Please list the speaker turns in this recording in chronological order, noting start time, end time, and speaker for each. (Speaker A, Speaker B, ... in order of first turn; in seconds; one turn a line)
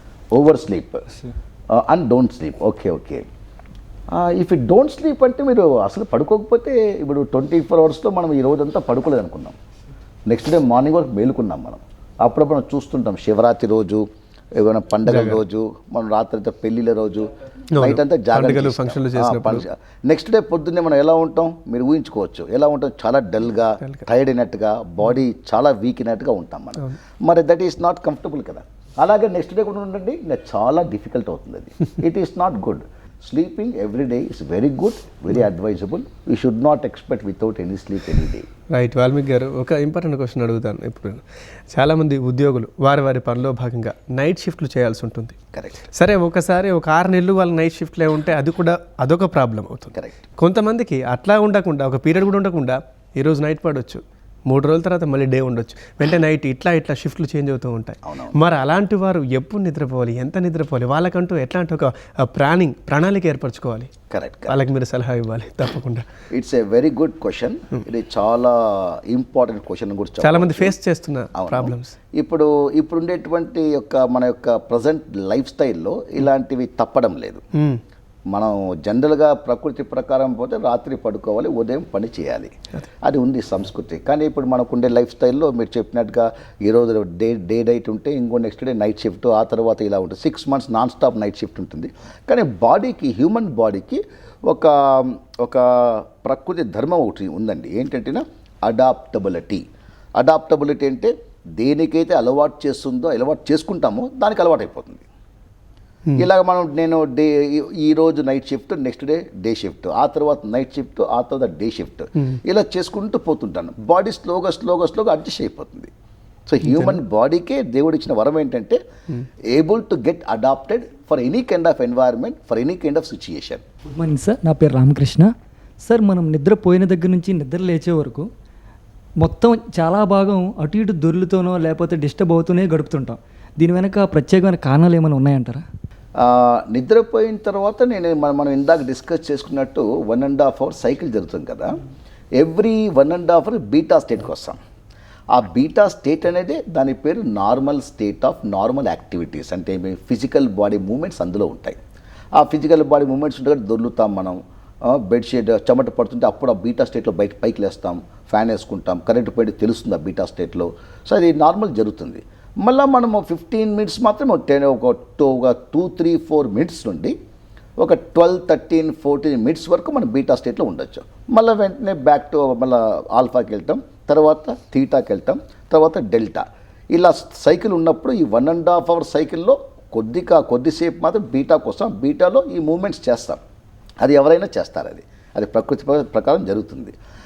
Speaker A: 0.3-1.1
Speaker A: 1.7-3.2
Speaker A: 4.1-9.6
Speaker A: 10.3-14.0
Speaker A: 14.5-38.5
Speaker B: 15.1-15.4
Speaker B: 17.7-19.6
Speaker B: 38.7-45.4
Speaker A: 45.5-45.8
Speaker B: 45.9-63.9
Speaker A: 49.9-50.2
Speaker A: 58.0-58.4
Speaker A: 64.1-64.6
Speaker B: 64.5-66.1
Speaker A: 66.3-70.8
Speaker B: 70.2-71.9
Speaker A: 71.3-77.4
Speaker A: 78.3-82.5
Speaker A: 83.0-99.6
Speaker A: 100.2-105.0
Speaker A: 106.2-115.9
Speaker A: 116.5-118.8
Speaker A: 119.5-123.6
Speaker C: 123.9-125.3
Speaker C: 125.8-128.2
Speaker C: 129.2-135.6
Speaker A: 136.2-141.8
Speaker A: 142.4-144.6
Speaker A: 145.3-151.8
Speaker A: 152.3-167.1
Speaker A: 167.8-183.4
Speaker A: 184.0-186.9